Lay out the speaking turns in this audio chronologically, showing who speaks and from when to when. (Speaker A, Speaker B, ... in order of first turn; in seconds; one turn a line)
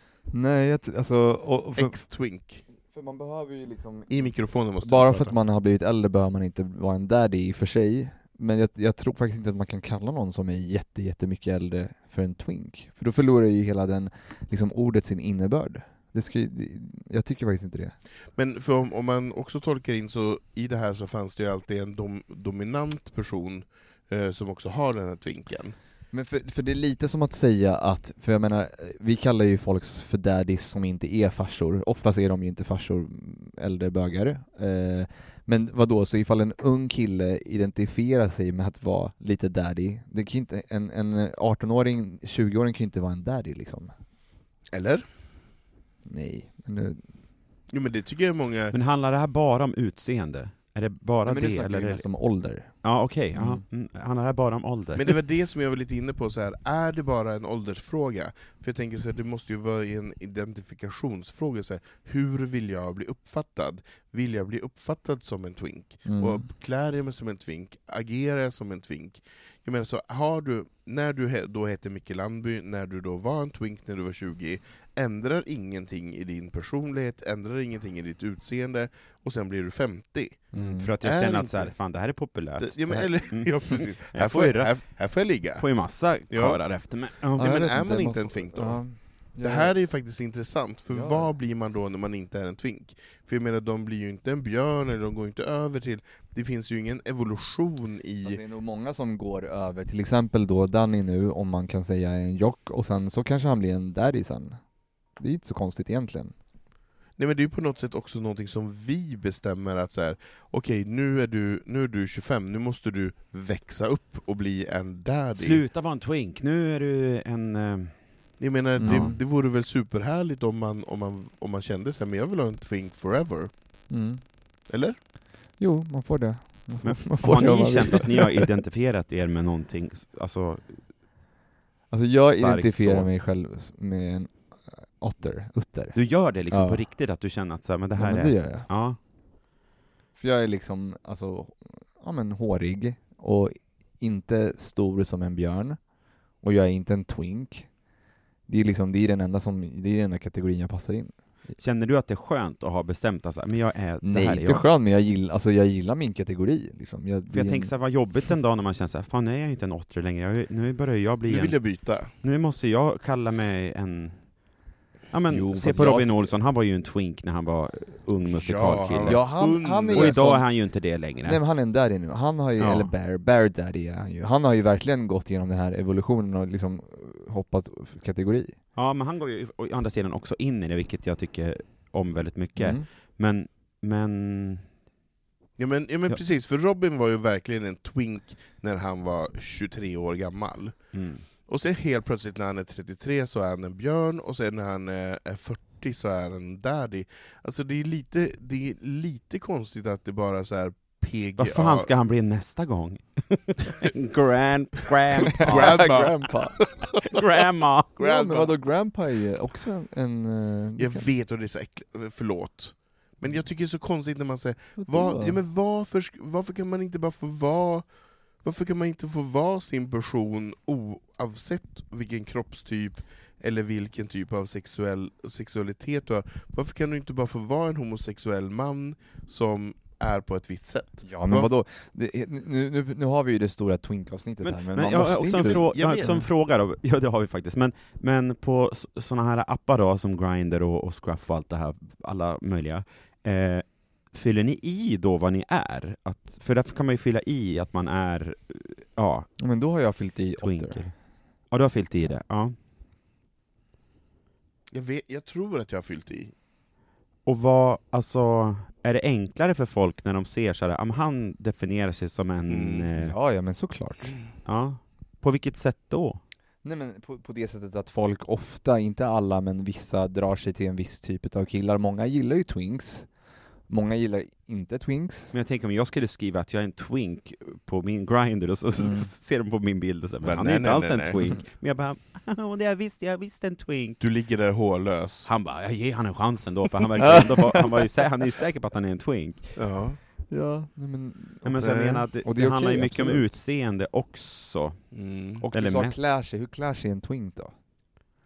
Speaker A: 0.3-2.0
Speaker B: 1.8-2.6
Speaker A: 2.7-17.9
Speaker B: 4.1-5.4
Speaker B: 18.4-25.8
Speaker A: 26.1-43.9
Speaker B: 44.7-45.1
Speaker A: 46.1-47.1
Speaker B: 47.7-48.8
Speaker C: 48.7-55.2
Speaker A: 51.3-53.7
Speaker B: 55.0-81.8
Speaker A: 66.0-66.5
Speaker A: 80.5-80.9
Speaker C: 80.6-87.8
Speaker B: 82.6-98.4
Speaker A: 87.4-89.8
Speaker A: 90.9-91.3
Speaker A: 98.2-106.3
Speaker B: 107.2-115.6
Speaker C: 115.4-119.1
Speaker B: 118.4-123.9
Speaker A: 118.8-119.2
Speaker A: 123.9-124.2
Speaker B: 124.7-125.0
Speaker A: 125.6-128.5
Speaker C: 126.8-131.1
Speaker A: 131.9-136.9
Speaker C: 132.0-133.1
Speaker C: 135.9-139.0
Speaker A: 138.0-138.7
Speaker A: 140.2-147.8
Speaker A: 148.5-151.5
Speaker C: 151.6-154.7
Speaker A: 154.0-157.7
Speaker C: 157.3-171.4
Speaker B: 161.3-162.1
Speaker A: 165.3-166.3
Speaker B: 168.3-170.2
Speaker A: 169.1-178.6
Speaker C: 172.6-172.9
Speaker C: 178.7-184.8
Speaker A: 182.6-182.8
Speaker B: 185.6-201.9
Speaker C: 190.9-191.2
Speaker C: 201.4-206.2
Speaker B: 205.2-206.3
Speaker A: 205.3-206.7
Speaker C: 207.1-208.0
Speaker B: 208.0-208.5
Speaker A: 208.0-211.1
Speaker B: 210.8-231.5
Speaker A: 214.8-215.4
Speaker A: 231.1-236.3
Speaker C: 234.4-249.4
Speaker B: 235.3-236.2
Speaker A: 249.4-250.9
Speaker C: 250.4-252.6
Speaker B: 254.7-256.3
Speaker C: 257.2-263.1
Speaker B: 262.5-262.9
Speaker A: 263.0-264.1
Speaker C: 264.4-266.2
Speaker A: 266.6-275.4
Speaker C: 275.3-284.0
Speaker A: 278.8-279.1
Speaker B: 280.2-281.2
Speaker B: 284.0-285.3
Speaker C: 285.3-289.6
Speaker A: 287.0-287.4
Speaker B: 289.6-290.0
Speaker A: 290.3-293.3
Speaker C: 291.4-296.1
Speaker B: 291.6-292.1
Speaker B: 294.9-295.4
Speaker A: 295.4-297.6